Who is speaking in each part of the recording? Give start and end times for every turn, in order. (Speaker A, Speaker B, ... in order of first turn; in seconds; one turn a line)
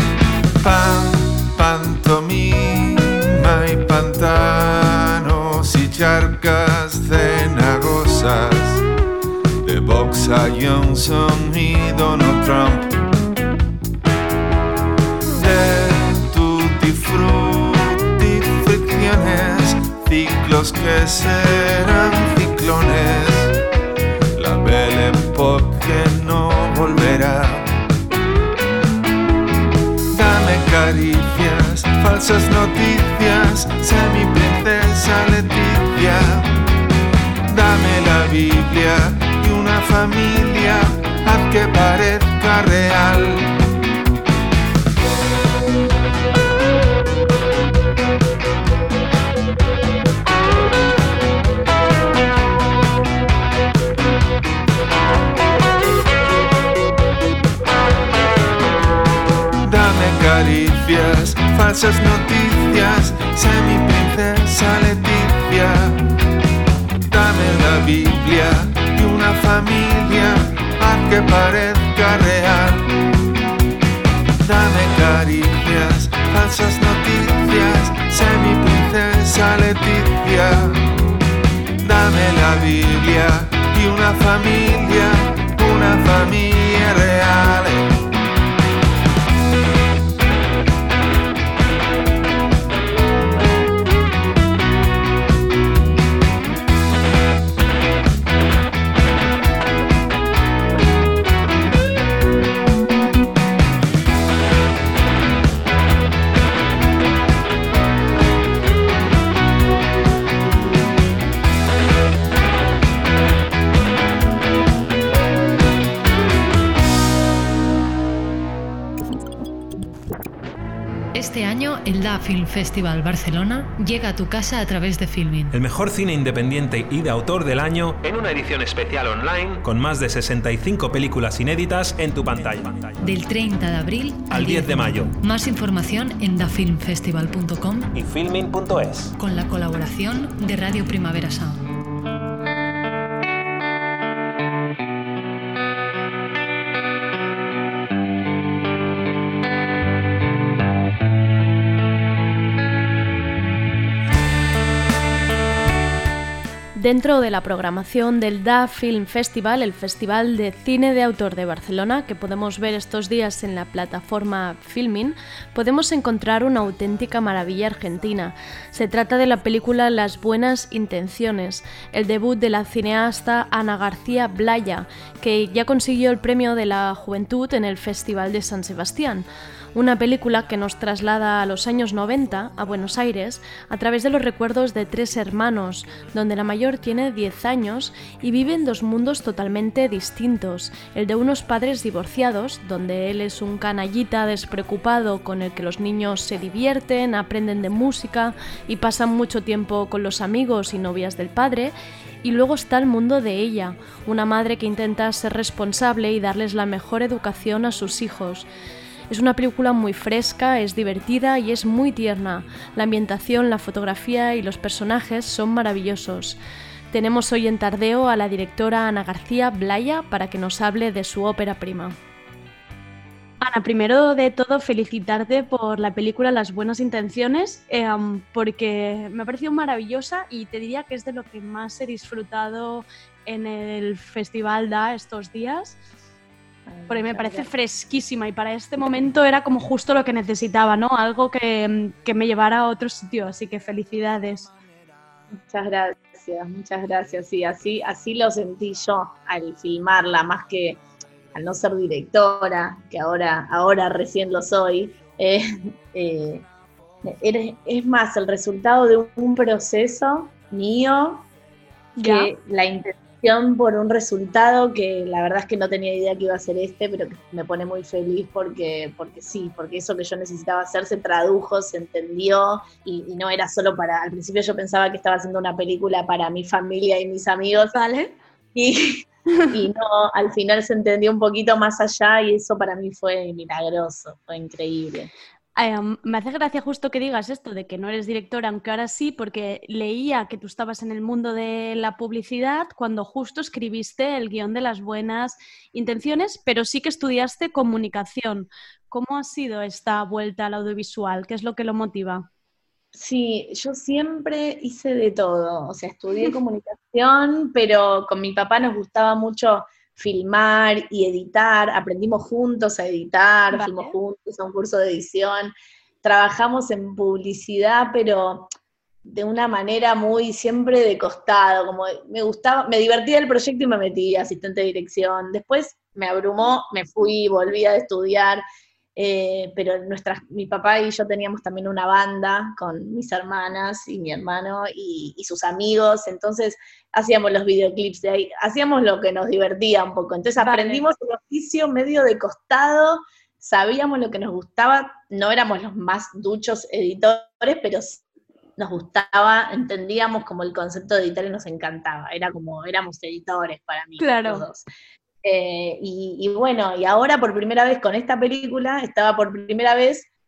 Speaker A: 0.6-8.8
Speaker A: 9.6-13.0
Speaker A: 15.3-23.5
Speaker A: 24.3-27.7
Speaker A: 30.1-36.5
Speaker A: 37.5-43.6
Speaker A: 59.6-66.1
Speaker A: 67.0-73.0
Speaker A: 74.4-80.9
Speaker A: 81.8-87.9
Speaker B: 121.1-125.5
Speaker C: 125.5-133.0
Speaker B: 133.0-137.9
Speaker C: 134.3-135.1
Speaker C: 137.9-139.1
Speaker B: 139.2-141.7
Speaker D: 156.8-201.7
Speaker D: 202.2-208.5
Speaker D: 209.1-216.4
Speaker D: 216.9-221.9
Speaker D: 223.4-235.8
Speaker E: 236.7-237.5
Speaker D: 236.9-244.5
Speaker E: 245.3-250.8
Speaker E: 251.3-256.4
Speaker E: 257.0-261.3
Speaker D: 262.0-262.3
Speaker E: 262.0-277.7
Speaker D: 277.7-278.1
Speaker E: 278.5-285.1
Speaker D: 285.6-302.3
Speaker E: 302.9-318.5
Speaker D: 313.5-313.9
Speaker E: 319.0-328.4
Speaker E: 328.9-348.0
Speaker D: 340.4-340.8
Speaker E: 348.6-354.6
Speaker D: 354.0-354.4
Speaker E: 355.2-360.1